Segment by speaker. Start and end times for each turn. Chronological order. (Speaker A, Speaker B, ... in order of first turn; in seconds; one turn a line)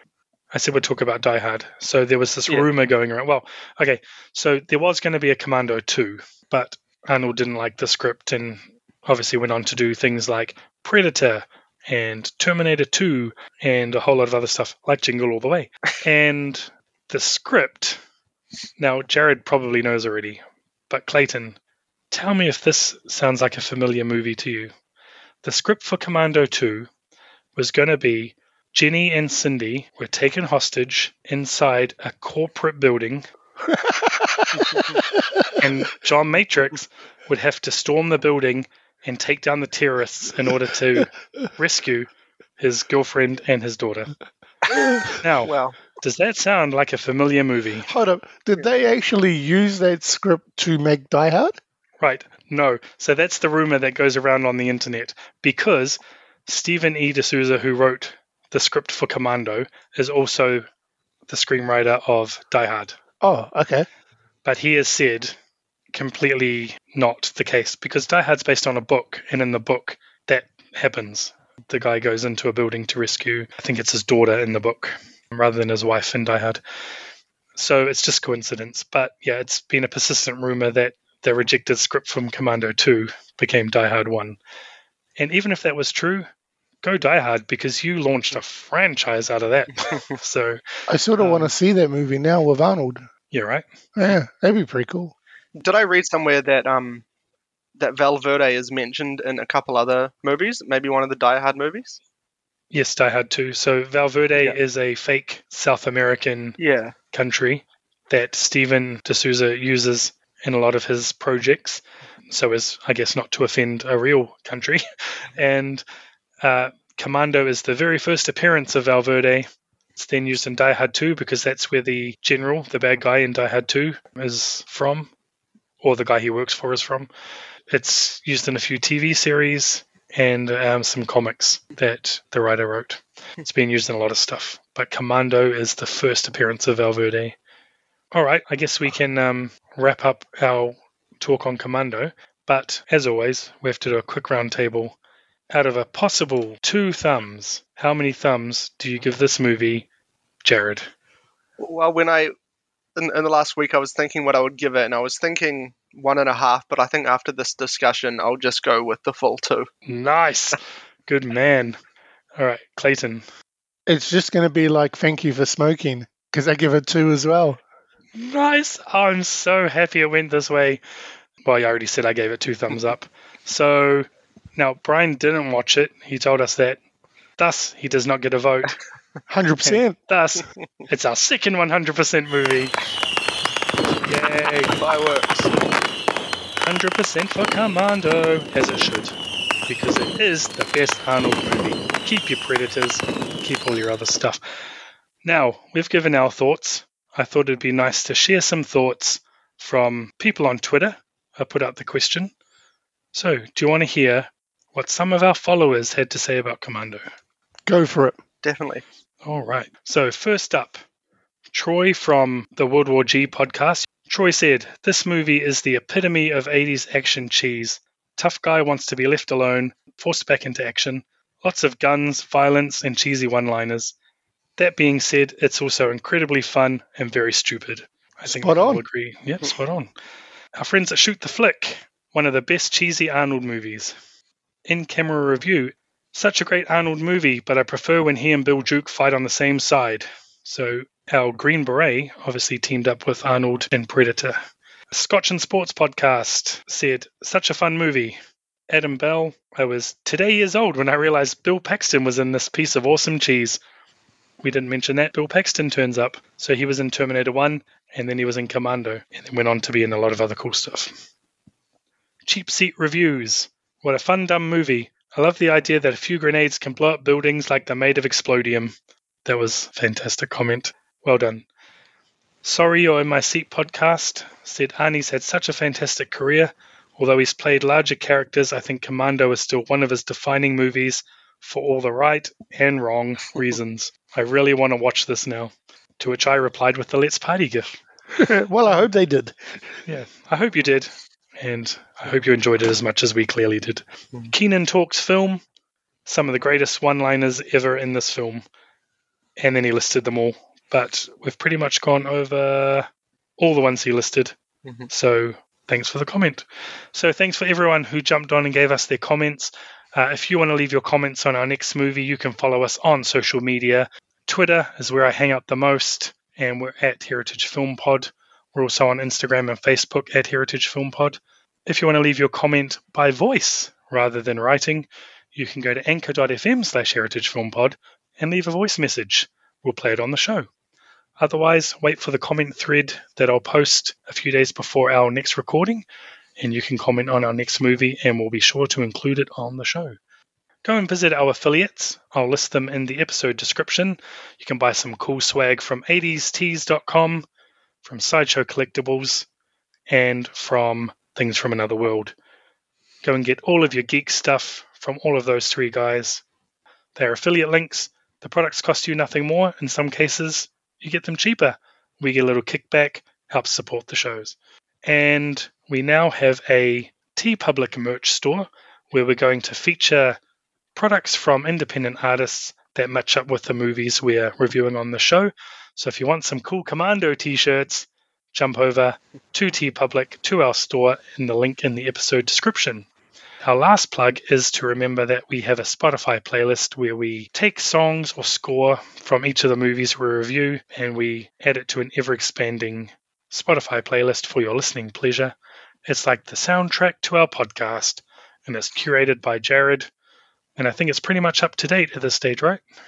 Speaker A: 0.5-18.0
Speaker A: 18.8-21.6
Speaker A: 22.1-24.7
Speaker A: 25.4-26.9
Speaker A: 27.6-33.2
Speaker B: 33.7-35.5
Speaker C: 34.7-35.0
Speaker A: 35.6-44.1
Speaker A: 45.2-47.9
Speaker C: 45.4-45.8
Speaker B: 47.8-51.6
Speaker A: 52.0-60.6
Speaker A: 61.3-63.0
Speaker B: 63.2-63.9
Speaker A: 64.4-65.3
Speaker A: 65.9-76.6
Speaker A: 77.5-84.4
Speaker A: 85.2-86.3
Speaker A: 86.8-90.6
Speaker B: 90.9-93.0
Speaker A: 91.2-91.5
Speaker A: 93.3-93.6
Speaker B: 94.0-95.1
Speaker C: 95.6-97.0
Speaker C: 97.8-102.0
Speaker A: 102.7-106.6
Speaker C: 106.6-106.9
Speaker A: 107.1-115.8
Speaker A: 116.4-125.1
Speaker A: 125.8-127.1
Speaker A: 127.7-137.3
Speaker A: 138.1-144.9
Speaker A: 145.5-149.9
Speaker A: 150.4-150.9
Speaker C: 151.6-152.3
Speaker C: 152.9-159.7
Speaker A: 159.8-161.8
Speaker A: 162.3-163.2
Speaker B: 163.9-167.6
Speaker A: 168.2-170.8
Speaker A: 171.4-176.8
Speaker A: 177.4-178.8
Speaker B: 179.3-179.9
Speaker A: 179.6-182.7
Speaker A: 184.0-185.5
Speaker C: 184.7-185.3
Speaker A: 186.6-189.2
Speaker A: 189.7-194.4
Speaker A: 195.2-202.3
Speaker A: 203.1-207.1
Speaker B: 207.7-208.2
Speaker C: 208.4-208.8
Speaker A: 209.2-210.8
Speaker A: 211.5-223.9
Speaker A: 224.6-229.9
Speaker B: 228.3-228.8
Speaker A: 230.6-233.9
Speaker A: 234.7-244.4
Speaker A: 244.9-253.6
Speaker A: 254.4-260.9
Speaker A: 262.2-271.4
Speaker A: 272.4-287.8
Speaker B: 288.1-289.6
Speaker A: 289.9-295.4
Speaker A: 296.1-298.4
Speaker A: 299.4-304.3
Speaker A: 304.9-330.5
Speaker A: 331.2-335.8
Speaker A: 336.4-340.0
Speaker A: 340.6-347.2
Speaker A: 347.8-349.2
Speaker A: 349.9-352.1
Speaker A: 353.0-356.2
Speaker A: 356.9-370.2
Speaker A: 370.7-382.9
Speaker A: 383.4-395.3
Speaker A: 395.9-399.9
Speaker A: 400.6-402.6